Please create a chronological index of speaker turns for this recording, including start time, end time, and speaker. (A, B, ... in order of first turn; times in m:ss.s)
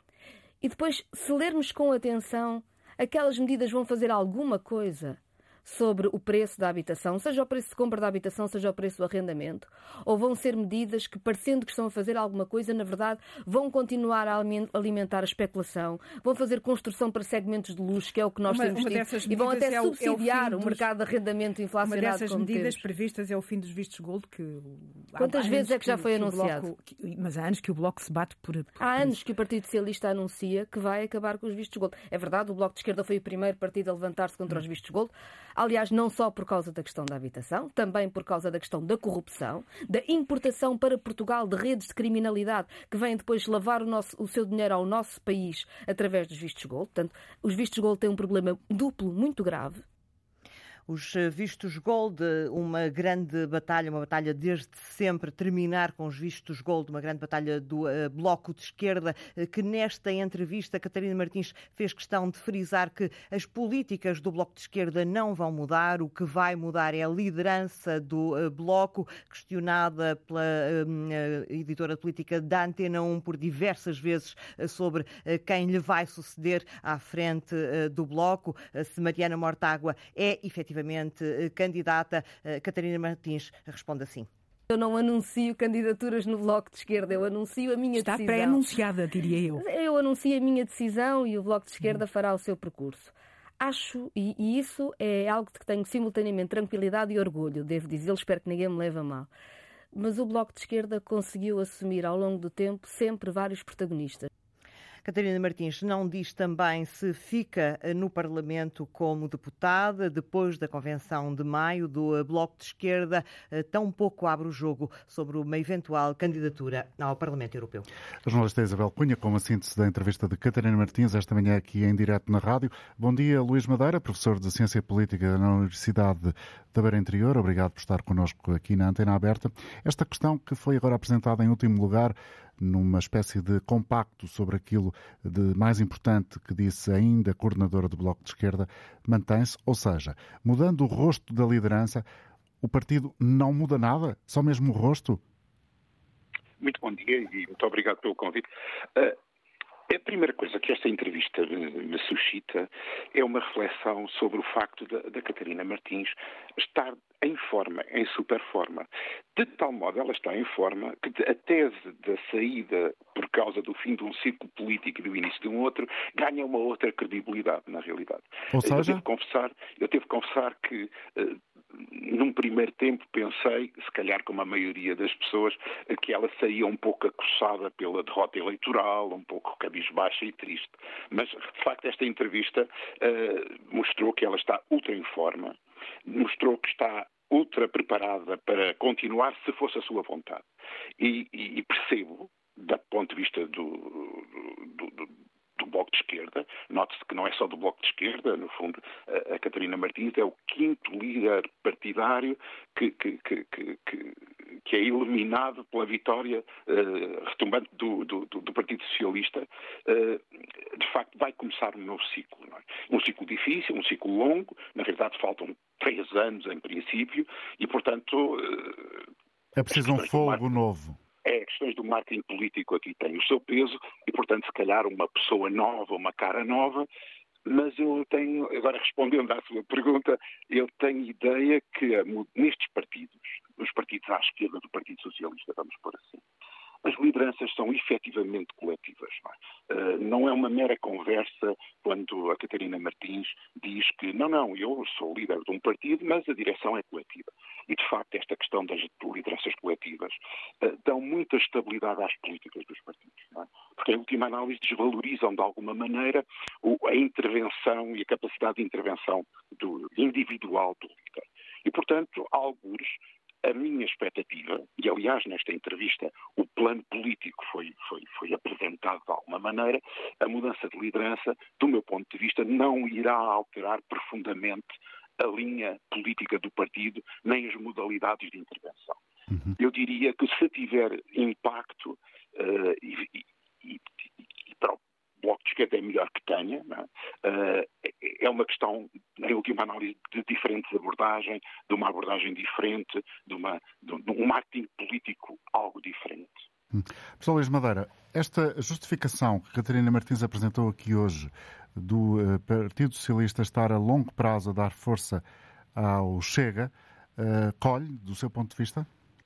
0:00.6-0:22.8 A
0:18.4-0:20.9 B
0:21.8-0:29.2 B
0:25.2-0:26.7 A
0:28.8-0:49.8 A
0:50.9-1:24.3 C
1:24.7-1:28.7 A
1:28.0-1:29.6 B
1:29.6-1:39.3 A
1:39.9-1:44.3 A
1:45.0-1:57.9 C
1:58.2-2:22.0 D
2:22.6-2:25.2 D
2:26.6-2:29.2 E
2:29.9-3:10.4 E
2:48.5-2:49.0 D
3:11.0-3:39.0 E
3:39.6-3:41.0 D
3:39.7-3:40.4 E
3:41.2-3:46.9 E
3:47.4-3:56.2 E
3:56.8-4:39.0 E
4:39.6-4:43.8 E
4:44.4-4:56.4 E
4:56.7-5:05.2 D
5:05.8-5:08.9 D